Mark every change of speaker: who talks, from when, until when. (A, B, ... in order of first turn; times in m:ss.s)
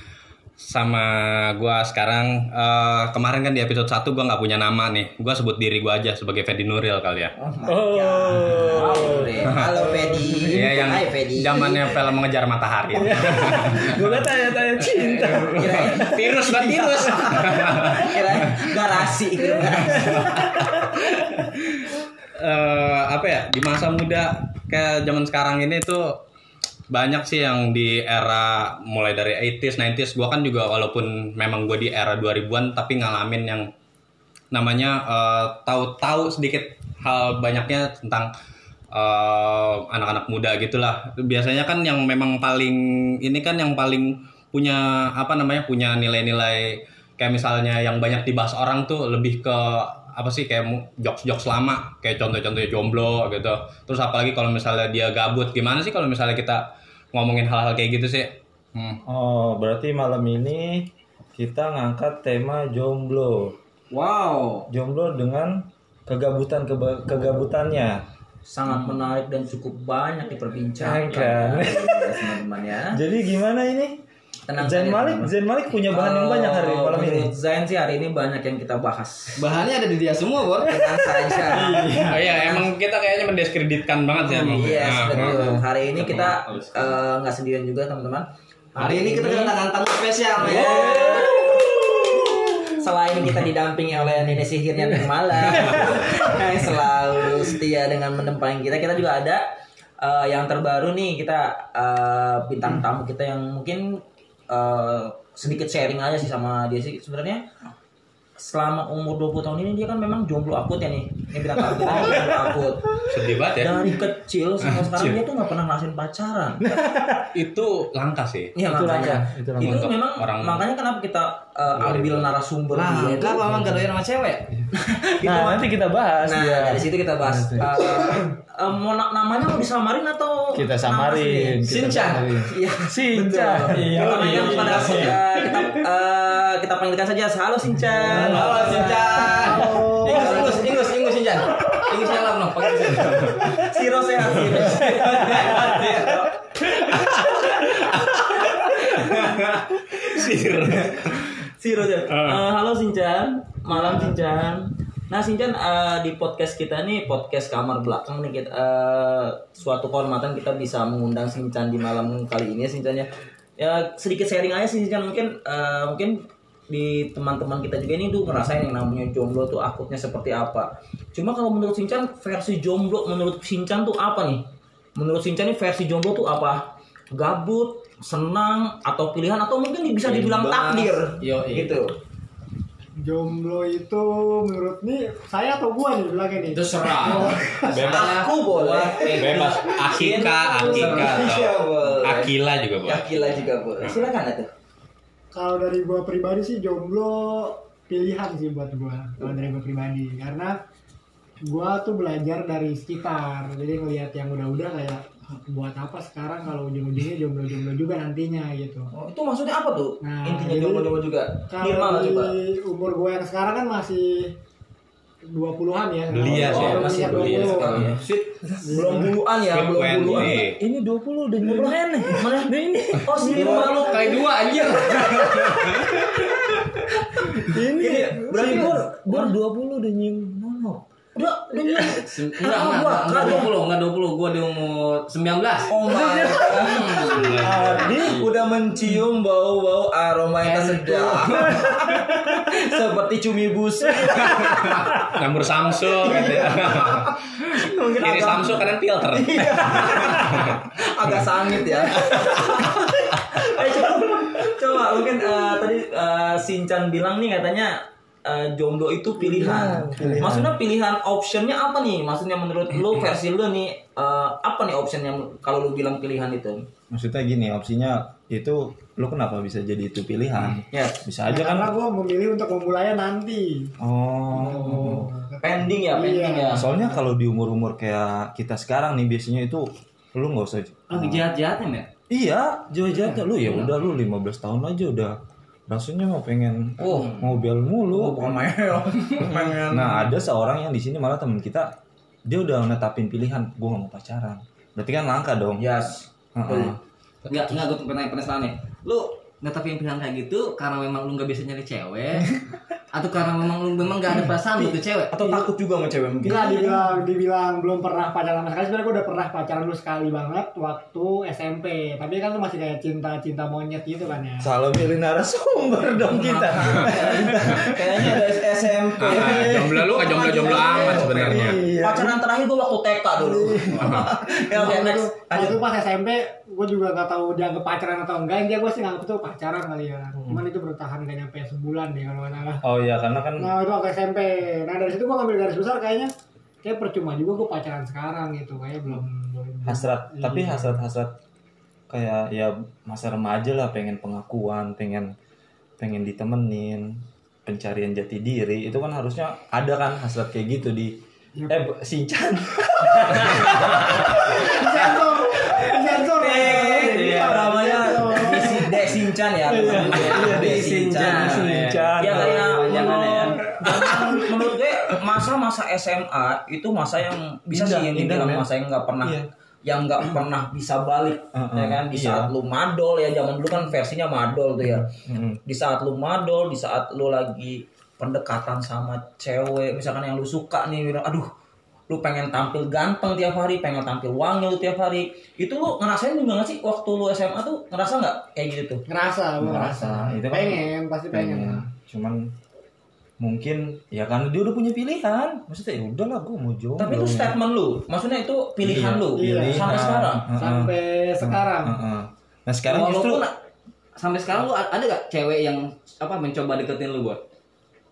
0:00.6-0:07.3 A
0:07.4-0:11.8 B
0:07.7-0:10.8 C
0:10.5-0:14.2 A
0:12.9-0:16.1 C
0:14.8-0:18.2 A
0:15.4-0:20.8 B
0:17.1-0:18.0 C
0:19.7-0:20.4 C
0:20.0-0:26.2 A
0:26.9-0:33.7 A
0:34.5-0:38.3 A
0:38.9-0:59.0 A
0:59.0-1:03.6 C
1:03.9-1:04.7 B
1:04.7-1:08.1 C
1:08.5-1:13.0 B
1:10.8-1:14.0 C
1:14.5-1:19.5 B
1:14.6-1:17.3 C
1:19.4-1:22.6 D
1:20.6-1:22.0 B
1:21.7-1:22.0 C
1:22.0-1:25.6 A
1:24.3-1:25.6 C
1:24.5-1:29.6 B
1:26.0-1:27.0 D
1:28.8-1:32.0 D
1:30.4-1:31.7 B
1:30.7-1:32.5 C
1:32.7-1:39.5 B
1:40.0-1:47.5 B
1:48.4-1:56.8 B
1:51.7-1:52.4 C
1:53.0-1:53.9 A
1:54.7-1:55.2 A
1:56.8-1:57.1 C
1:57.3-1:58.5 A
1:58.6-2:03.5 B
1:58.6-1:59.9 C
1:59.6-2:00.7 A
2:01.8-2:02.3 A
2:02.7-2:04.5 D
2:02.8-2:03.9 C
2:04.7-2:05.7 B
2:05.2-2:08.3 C
2:06.2-2:11.7 B
2:10.5-2:15.6 C
2:11.6-2:12.4 D
2:12.4-2:21.0 B
2:13.7-2:15.7 D
2:17.9-2:19.6 C
2:18.0-2:23.4 D
2:19.4-2:20.8 E
2:23.0-2:23.4 A
2:23.4-2:26.4 B
2:25.1-2:25.8 D
2:25.3-2:26.0 C
2:26.8-2:29.3 A
2:26.9-2:27.3 B
2:29.0-2:29.4 B
2:29.9-2:54.4 B
2:29.9-2:31.4 A
2:32.1-2:32.4 A
2:55.0-3:01.9 B
3:00.0-3:00.9 C
3:01.2-3:01.8 D
3:03.0-3:07.9 E
3:06.5-3:11.2 D
3:07.7-3:08.3 A
3:07.8-3:14.5 B
3:09.1-3:13.2 A
3:15.3-3:20.5 E
3:21.4-3:28.9 E
3:28.9-3:32.3 B
3:30.0-3:31.0 E
3:31.5-3:34.3 E
3:35.3-3:37.9 E
3:36.1-3:38.0 A
3:36.5-3:40.5 B
3:38.6-3:39.2 E
3:39.5-3:40.6 A
3:40.1-3:44.2 C
3:41.4-3:44.3 B
3:43.3-3:46.5 D
3:45.4-3:45.8 C
3:47.2-3:49.3 B
3:47.3-3:50.8 C
3:51.2-3:53.5 B
3:51.6-3:52.0 C
3:52.0-3:58.3 D
3:55.7-4:04.9 B
3:57.2-3:57.9 A
3:57.3-3:58.2 C
4:00.4-4:01.6 D
4:01.6-4:02.6 C
4:04.0-4:04.8 C
4:04.5-4:05.0 D
4:05.0-4:07.1 A
4:05.9-4:26.7 B
4:08.0-4:10.6 A
4:19.2-4:20.6 C
4:26.9-4:31.7 C
4:30.7-4:31.0 B
4:31.2-4:33.7 E
4:33.8-4:35.1 C
4:34.3-4:35.4 E
4:35.4-4:36.7 B
4:35.9-4:37.0 E
4:36.5-4:41.2 C
4:40.9-4:41.9 D
4:42.1-4:45.2 C
4:43.4-4:43.7 D
4:45.7-4:48.4 C
4:46.8-4:47.3 B
4:47.8-4:50.1 B
4:49.2-4:51.7 C
4:52.2-4:55.7 C
4:55.6-4:56.8 B
4:56.4-4:56.8 C
4:57.3-5:02.4 D
5:02.9-5:05.2 D
5:05.1-5:06.9 B
5:06.2-5:14.5 E
5:14.4-5:22.2 C
5:16.0-5:25.6 B
5:19.0-5:21.6 A
5:23.2-5:24.0 C
5:23.8-5:24.1 A
5:24.3-5:32.6 E
5:30.2-5:30.4 C
5:32.6-5:33.6 C
5:33.4-5:36.1 E
5:36.6-5:40.8 E
5:39.6-5:41.2 C
5:41.9-5:45.1 C
5:45.8-5:58.8 C
5:53.8-5:58.8 E
5:56.1-6:21.3 B
5:59.4-6:04.4 C
5:59.5-6:03.5 D
6:07.5-6:08.5 C
6:09.0-6:09.3 C
6:11.3-6:12.3 C
6:14.9-6:15.4 C
6:21.9-6:28.8 B
6:28.9-6:31.6 E
6:29.4-6:32.3 C
6:33.2-6:37.4 C
6:36.8-6:40.3 B
6:38.6-6:43.3 C
6:39.2-6:41.8 E
6:42.7-6:43.4 D
6:44.0-6:47.2 D